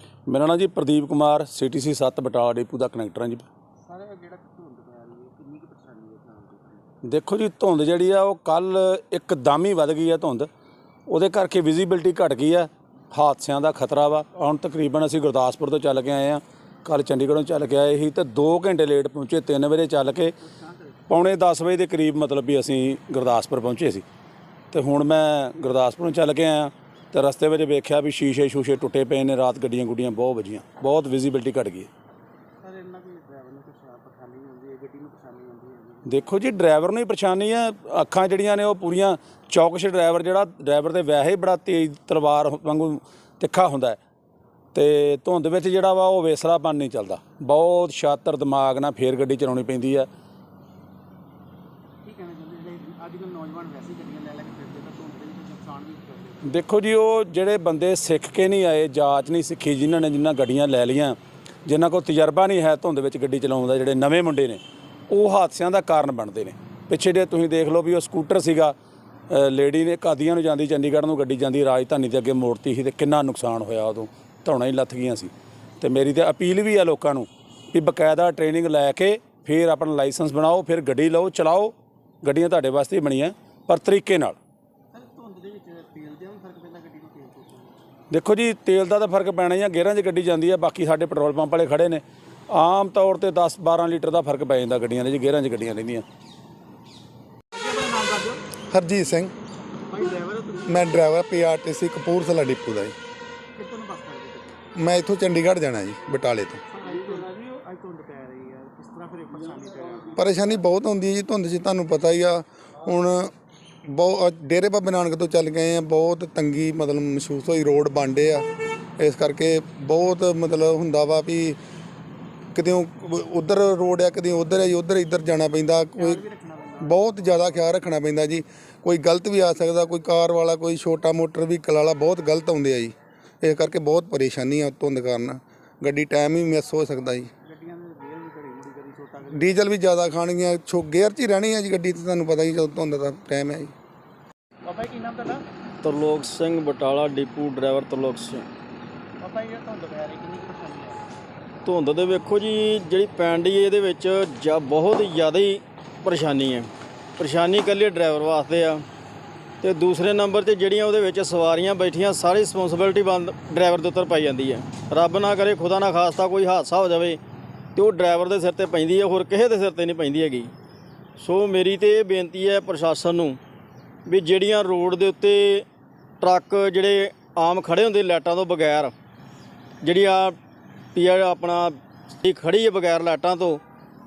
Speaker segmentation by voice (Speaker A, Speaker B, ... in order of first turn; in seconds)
Speaker A: 0.2-3.5, 7.0-10.5, 11.1-20.3, 21.1-24.0, 24.7-31.9, 36.0-44.0, 44.7-50.1, 56.4-68.7, 69.3-84.4, 88.1-96.0
Speaker B: 3.9-6.8, 20.4-20.9, 32.6-36.3, 52.0-56.6, 84.9-87.7, 97.5-98.4, 99.9-100.9, 103.5-104.6, 106.7-110.3, 126.0-127.6, 137.4-139.6, 144.7-145.4, 149.2-151.0
Speaker C: 98.7-99.3, 100.7-102.9, 104.8-106.6, 110.2-113.3, 113.8-118.4, 119.0-121.6, 122.5-126.2, 126.8-137.3, 139.3-143.7
Speaker D: 145.8-148.5, 151.6-158.8, 159.6-167.2, 167.7-170.5, 171.2-173.4, 174.1-175.7, 176.2-178.9, 179.8-180.4, 180.9-183.6